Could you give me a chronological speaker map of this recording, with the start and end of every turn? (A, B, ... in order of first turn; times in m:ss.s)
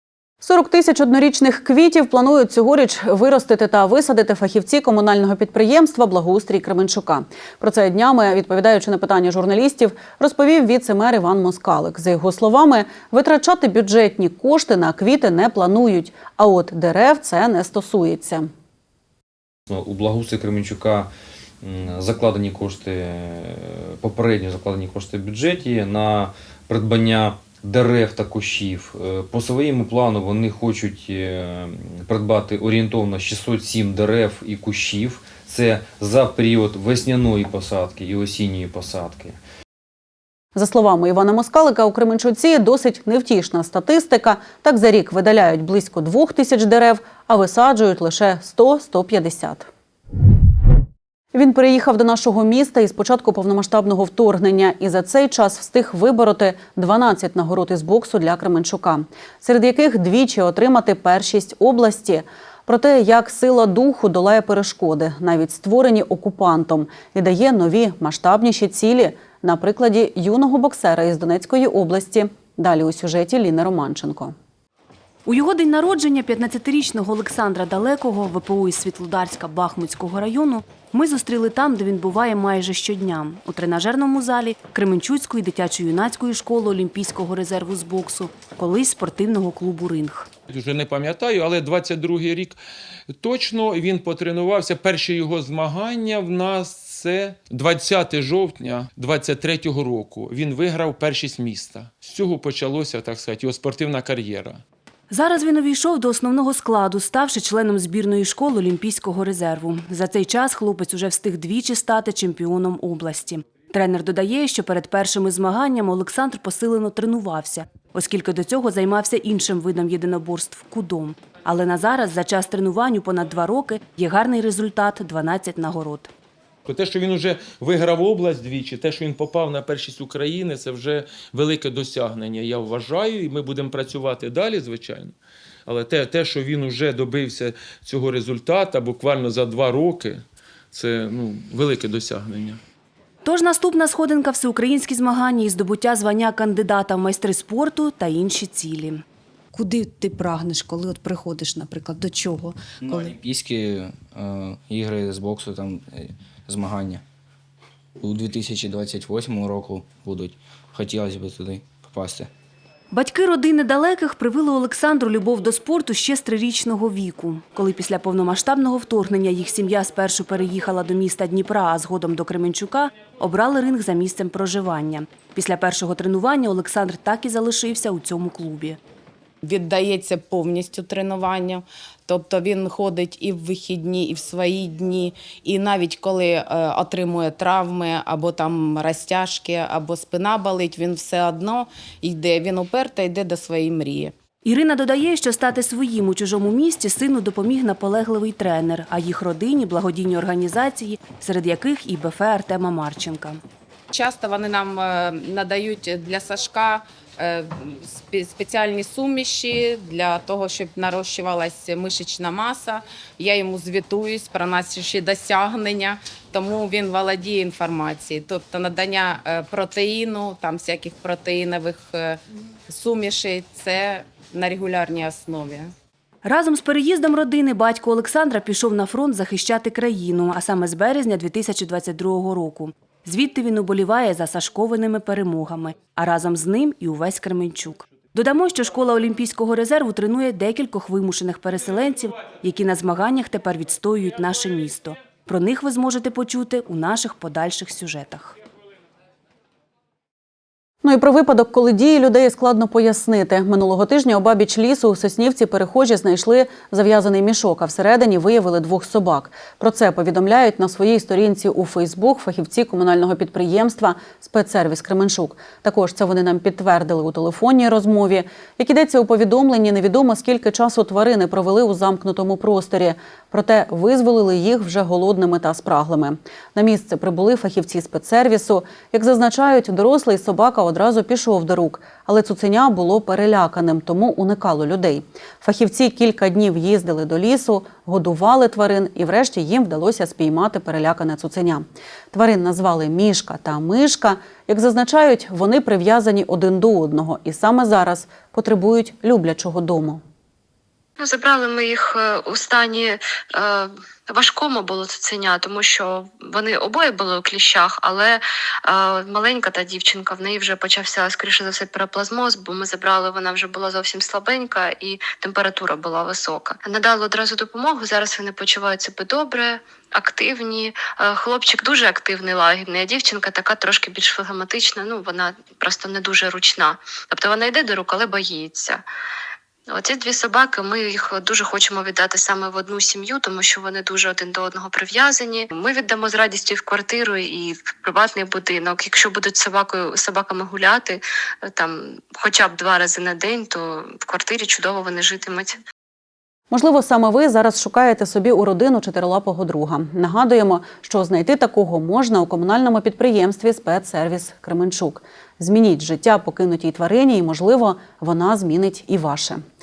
0:00.4-0:18.5 A
0:19.7-0:21.1 B
0:21.6-0:39.4 B
0:40.5-0:49.7 A
0:51.3-1:14.3 A
1:15.2-1:30.3 C
1:30.5-1:32.6 D
1:33.1-1:44.6 D
1:45.1-2:06.1 C
2:06.6-2:15.1 D
2:15.7-2:22.6 D
2:23.2-2:29.0 C
2:29.5-2:32.6 E
2:32.8-2:37.0 F
2:38.0-2:42.3 F
2:42.9-2:58.8 C
2:59.4-3:14.1 G
3:14.4-3:23.4 C
3:23.9-3:45.7 G
3:46.2-4:08.4 C
4:10.8-5:00.0 A
5:01.0-5:28.8 H
5:29.7-5:45.6 H
5:46.5-5:59.4 A